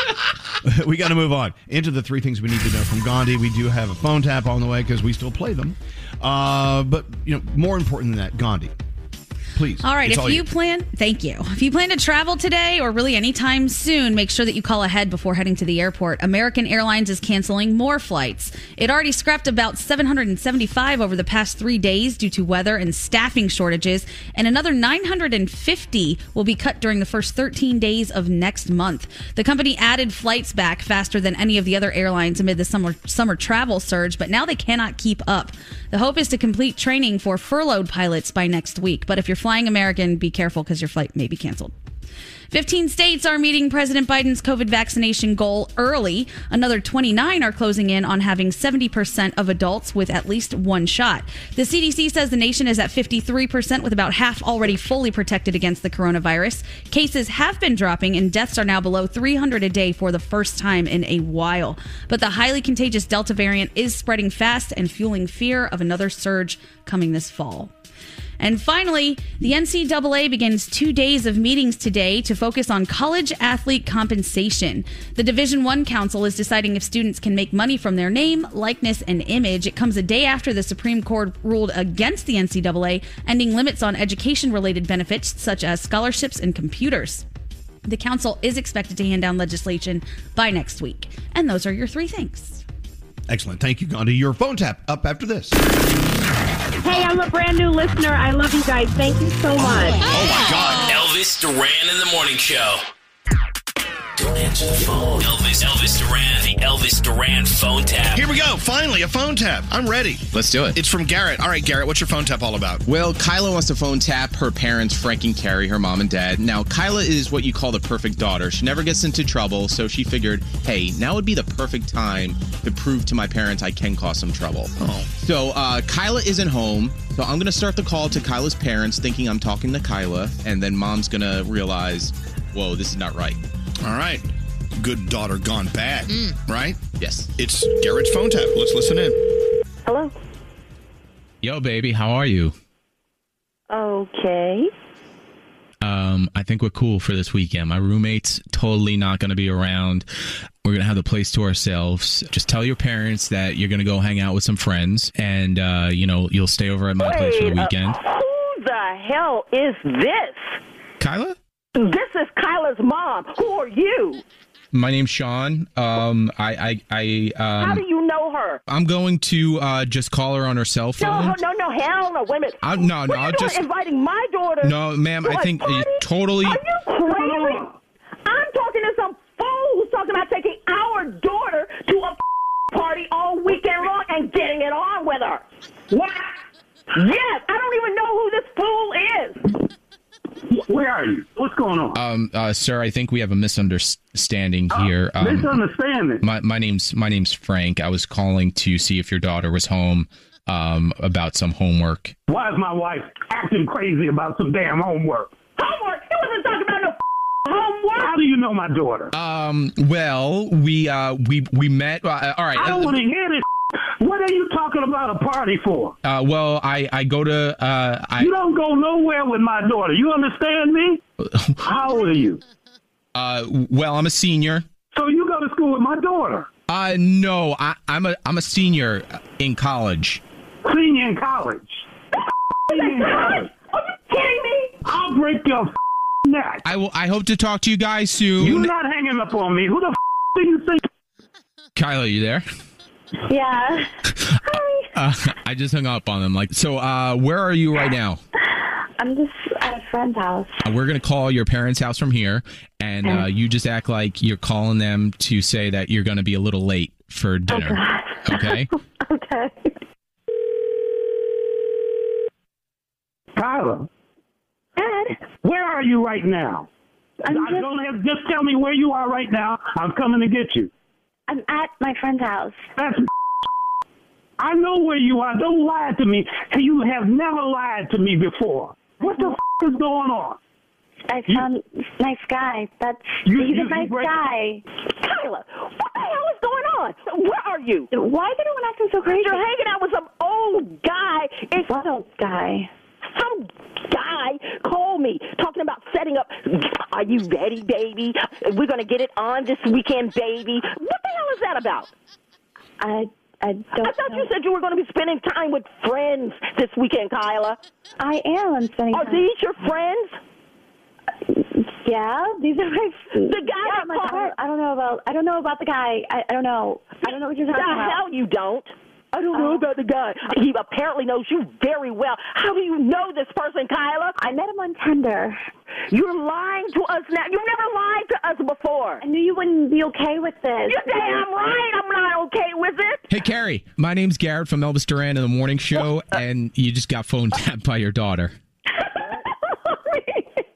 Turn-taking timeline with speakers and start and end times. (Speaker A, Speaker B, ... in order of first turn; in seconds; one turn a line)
Speaker A: 0.6-8.7
Speaker A: 9.5-10.4
Speaker B: 9.8-41.7
Speaker B: 42.5-67.7
Speaker B: 68.4-87.2
Speaker B: 87.9-92.6
Speaker A: 93.3-95.6
Speaker C: 96.9-97.3
Speaker C: 98.2-100.0
Speaker A: 100.0-100.9
Speaker D: 100.8-102.8
Speaker D: 105.1-108.3
Speaker A: 108.1-112.8
Speaker E: 110.3-110.8
Speaker E: 112.9-133.4
Speaker A: 124.8-125.1
Speaker A: 133.8-136.8
Speaker E: 137.0-137.3
Speaker A: 137.4-139.2
Speaker F: 139.8-140.1
Speaker E: 141.4-142.5
Speaker F: 143.7-144.7
Speaker E: 145.8-150.1
Speaker E: 150.6-158.0
Speaker G: 157.0-160.6
Speaker E: 161.0-161.3
Speaker G: 161.8-164.2
Speaker E: 164.7-167.8
Speaker G: 167.6-168.6
Speaker E: 168.7-171.4
Speaker G: 171.0-177.7
Speaker E: 172.6-173.7
Speaker E: 174.6-176.6
Speaker H: 177.1-177.5
Speaker G: 178.2-185.4
Speaker G: 186.9-189.5
Speaker H: 190.5-192.0
Speaker E: 191.9-195.6
Speaker H: 194.7-196.2
Speaker E: 196.2-202.1
Speaker H: 202.3-205.4
Speaker G: 205.6-208.1
Speaker H: 207.9-209.1
Speaker E: 209.1-212.9
Speaker H: 212.5-213.4
Speaker H: 214.0-215.9
Speaker E: 216.0-218.3
Speaker H: 218.2-221.0
Speaker E: 221.2-221.6
Speaker H: 221.6-222.4
Speaker E: 223.1-224.7
Speaker H: 224.9-226.5
Speaker E: 226.7-230.2
Speaker H: 230.6-231.8
Speaker H: 232.7-233.5
Speaker G: 232.7-234.8
Speaker H: 234.8-235.7
Speaker H: 236.2-236.6
Speaker E: 236.6-238.7
Speaker H: 238.4-240.8
Speaker E: 241.8-242.4
Speaker F: 243.2-243.9
Speaker F: 244.5-244.8
Speaker E: 244.5-248.2
Speaker F: 249.0-250.6
Speaker E: 250.6-258.7
Speaker F: 257.5-258.5
Speaker F: 259.1-259.5
Speaker H: 263.4-263.9
Speaker H: 265.4-266.7
Speaker H: 267.2-270.7
Speaker F: 267.3-267.6
Speaker F: 271.3-272.6
Speaker H: 272.8-273.1
Speaker H: 274.4-280.4
Speaker F: 281.1-284.6
Speaker H: 283.2-284.2
Speaker G: 284.9-287.9
Speaker F: 287.9-289.3
Speaker G: 289.1-291.7
Speaker F: 291.7-292.7
Speaker G: 293.0-301.9
Speaker F: 302.8-304.2
Speaker G: 303.8-307.6
Speaker F: 308.0-309.2
Speaker G: 308.9-310.2
Speaker F: 311.8-317.9
Speaker G: 313.2-314.3
Speaker G: 317.0-324.2
Speaker F: 324.2-325.3
Speaker G: 325.9-329.0
Speaker F: 329.0-330.8
Speaker G: 330.6-333.1
Speaker E: 333.1-338.3
Speaker G: 338.8-339.7